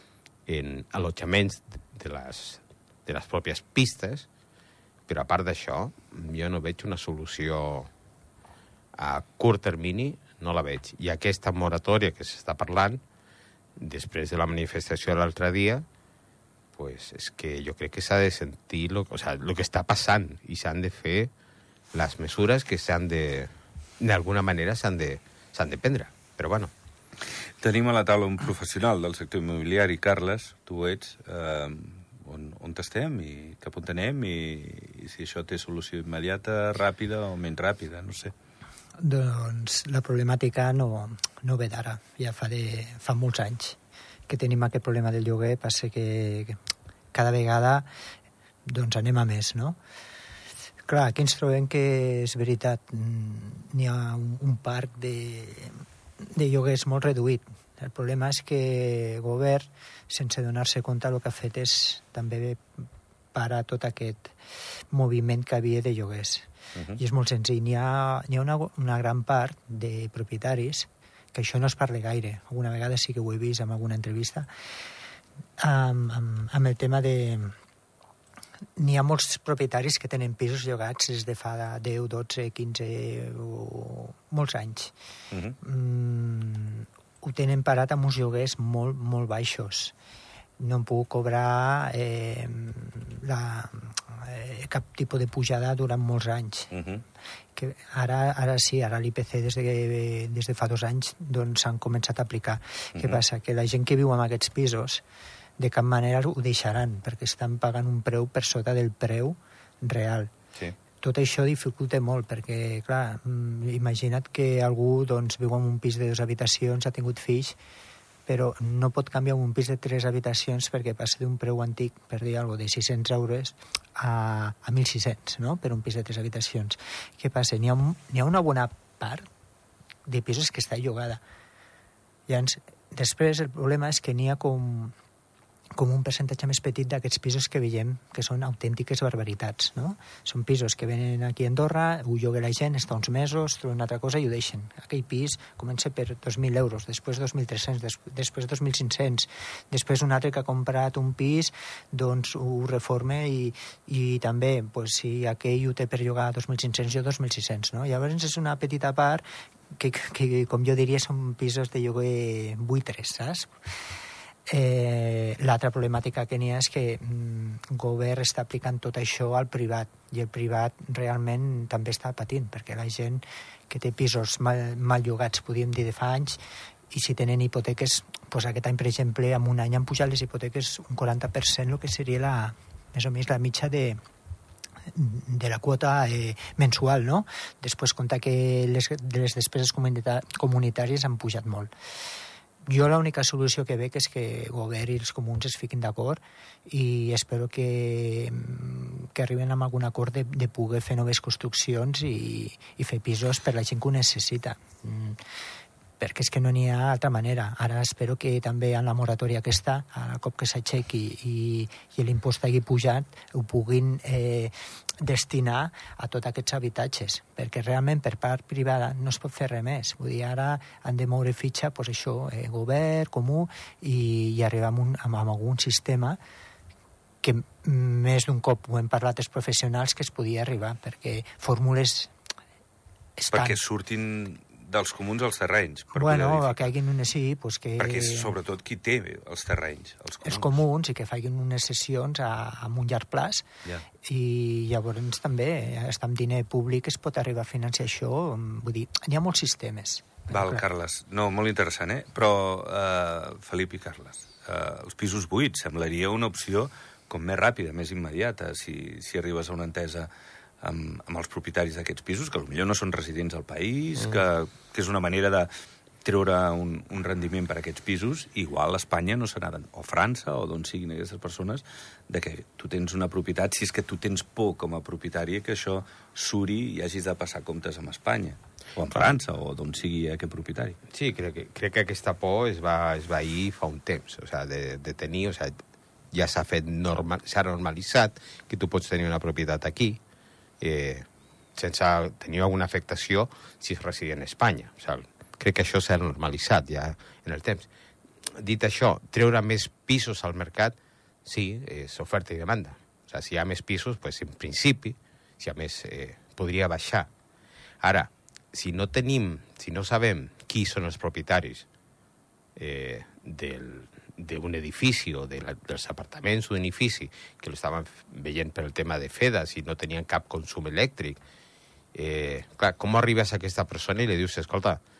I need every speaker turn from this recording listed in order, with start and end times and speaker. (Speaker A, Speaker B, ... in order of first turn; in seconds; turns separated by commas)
Speaker A: 0.5-4.3, Speaker A: 5.1-7.9, Speaker A: 9.0-13.0, Speaker A: 13.8-15.8, Speaker A: 16.7-21.3, Speaker A: 21.9-26.7, Speaker B: 27.6-38.3, Speaker C: 39.0-43.8, Speaker C: 44.3-46.6, Speaker C: 47.1-47.9, Speaker C: 48.7-49.8, Speaker C: 50.9-62.6, Speaker C: 63.3-64.4, Speaker C: 64.9-74.5, Speaker B: 66.7-67.0, Speaker C: 75.6-77.5, Speaker C: 78.8-84.9, Speaker B: 85.3-85.6, Speaker C: 85.6-89.9, Speaker C: 90.6-96.7, Speaker B: 96.7-97.0, Speaker C: 97.5-105.0, Speaker B: 102.9-103.2, Speaker C: 105.6-110.3, Speaker C: 111.0-117.5, Speaker C: 118.3-129.3, Speaker C: 130.1-131.2, Speaker C: 132.3-134.9, Speaker C: 135.8-163.5, Speaker C: 164.5-176.4, Speaker C: 176.9-184.0, Speaker C: 184.9-191.7, Speaker C: 192.7-205.2, Speaker C: 206.0-226.2, Speaker C: 227.2-232.1, Speaker C: 233.2-233.6, Speaker B: 233.3-236.7, Speaker C: 235.9-238.3, Speaker B: 237.8-240.6, Speaker C: 240.2-243.4, Speaker C: 244.0-250.6, Speaker B: 250.3-260.1, Speaker B: 260.6-265.5, Speaker B: 266.0-280.8, Speaker A: 280.9-285.6, Speaker A: 286.1-290.0, Speaker A: 290.6-297.7, Speaker A: 298.2-307.1, Speaker A: 307.8-311.7, Speaker A: 312.6-321.2, Speaker A: 321.9-324.8